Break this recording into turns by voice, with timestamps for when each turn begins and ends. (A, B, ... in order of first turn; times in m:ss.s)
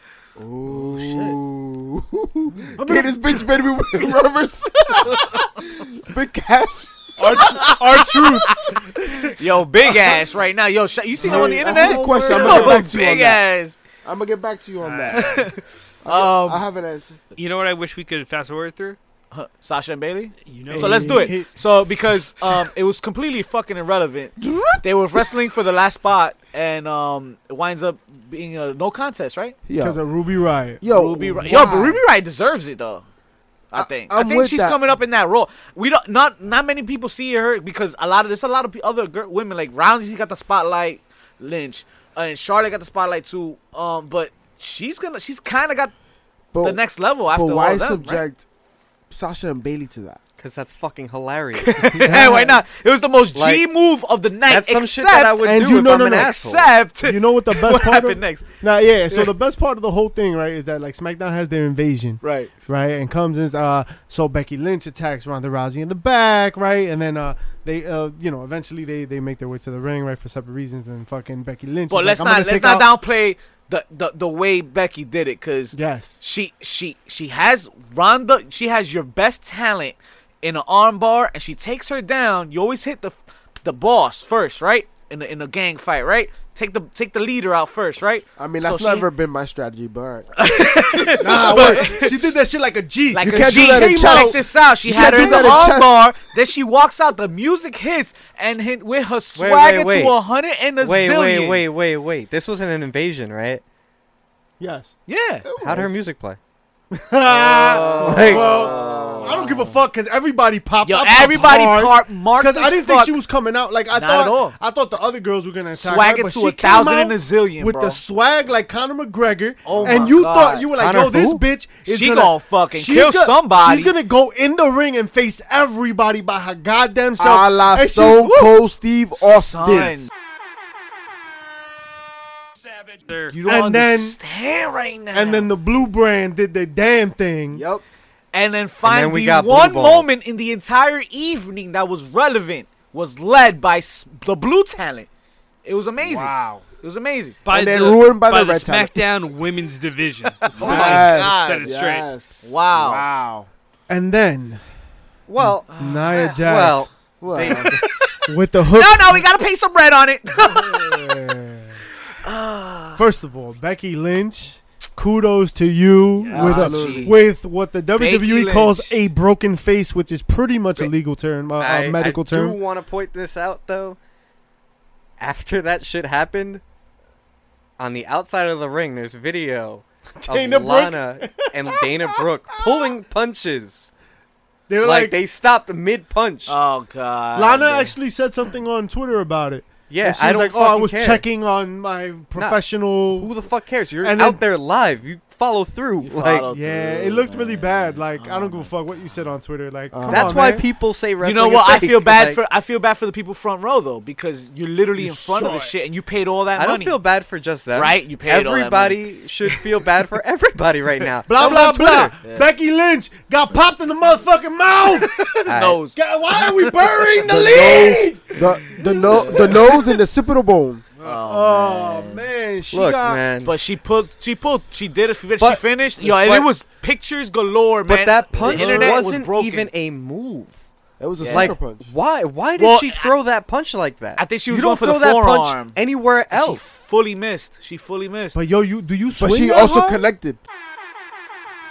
0:00.4-0:07.6 A
0:00.8-0:01.4 B
0:02.7-0:03.4 C
0:07.2-0:08.8 C
0:07.5-0:13.8 B
0:11.2-0:12.8 C
0:11.2-0:13.4 A
0:14.0-0:15.4 A
0:14.8-0:15.5 D
0:15.1-0:16.6 B
0:16.0-0:17.2 A
0:17.4-0:19.0 D
0:19.3-0:29.6 B
0:20.4-0:21.4 D
0:20.7-0:21.5 C
0:24.4-0:25.2 A
0:29.6-0:30.0 A
0:29.8-0:30.8 C
0:30.8-0:32.0 A
0:30.8-0:33.0 B
0:33.7-0:45.9 B
0:33.7-0:34.8 A
0:46.5-0:48.4 A
0:46.6-0:48.2 B
0:49.1-0:50.2 A
0:50.4-0:52.1 E
0:51.5-0:55.4 B
0:52.0-0:52.6 C
0:53.3-0:53.6 E
0:54.5-0:56.7 E
0:55.4-0:56.3 C
0:56.1-0:58.5 B
0:57.0-1:12.9 C
1:02.2-1:02.5 B
1:11.9-1:29.1 B
1:15.7-1:16.2 C
1:28.4-1:30.3 A
1:30.4-1:32.2 B
1:31.1-1:34.4 C
1:31.2-1:31.9 A
1:33.1-1:41.6 B
1:33.2-1:36.0 A
1:35.0-1:35.6 C
1:39.4-1:40.1 E
1:40.8-1:43.6 E
1:44.6-1:44.9 C
1:45.1-1:45.4 B
1:45.4-1:46.0 A
1:45.6-1:46.4 E
1:46.9-2:08.3 C
1:47.3-1:49.4 B
1:47.6-1:49.7 A
1:48.0-1:48.5 E
1:50.8-1:53.1 B
1:53.9-1:54.5 B
1:55.7-1:58.0 B
1:59.6-2:00.7 B
1:59.7-2:00.1 A
2:00.8-2:01.4 E
2:01.9-2:03.9 B
2:07.2-2:10.1 A
2:08.2-2:08.6 B
2:09.2-2:10.1 B
2:12.9-2:13.4 D
2:13.3-2:15.5 B
2:13.4-2:14.2 C
2:15.1-2:17.6 C
2:17.5-2:17.8 A
2:18.3-2:25.1 B
2:18.8-2:20.1 E
2:25.6-2:27.4 B
2:26.0-2:26.6 A
2:27.4-2:32.1 D
2:27.5-2:29.1 A
2:30.4-2:31.7 B
2:30.5-2:33.5 A
2:30.6-2:31.0 C
2:32.4-2:33.0 B
2:33.9-2:34.6 C
2:35.3-2:37.8 E
2:35.4-2:36.9 C
2:35.8-2:36.0 B
2:37.2-2:37.8 A
2:37.4-2:41.2 B
2:38.3-2:39.2 C
2:40.4-2:41.8 C
2:42.2-2:43.0 B
2:43.0-2:52.6 C
2:46.2-2:46.7 D
2:46.3-2:47.2 B
2:46.3-2:47.2 A
2:48.0-2:49.0 B
2:51.6-2:54.0 E
2:55.2-2:56.6 E
2:57.8-3:03.9 E
3:00.2-3:02.9 C
3:04.7-3:05.2 C
3:04.8-3:06.6 E
3:06.5-3:07.9 B
3:07.4-3:13.3 C
3:09.9-3:11.2 E
3:13.1-3:16.5 E
3:14.0-3:14.4 C
3:16.0-3:18.7 B
3:16.5-3:20.6 C
3:19.9-3:20.6 A
3:20.1-3:22.4 E
3:21.2-3:27.0 B
3:25.0-3:25.7 C
3:26.5-3:32.1 E
3:27.7-3:29.0 B
3:31.3-3:39.9 C
3:35.0-3:36.7 B
3:35.5-3:35.8 E
3:37.2-3:40.8 A
3:39.0-3:39.6 B
3:41.0-3:42.2 B
3:41.1-3:43.2 C
3:42.7-3:43.5 E
3:43.4-3:49.7 B
3:45.4-3:46.5 E
3:47.9-3:50.6 E
3:48.4-3:48.9 A
3:51.0-3:51.9 A
3:51.2-3:51.5 B
3:51.2-3:56.8 E
3:52.6-3:53.1 B
3:54.2-3:55.8 B
3:56.3-3:58.4 B
3:58.3-4:00.0 C
3:59.2-4:00.4 A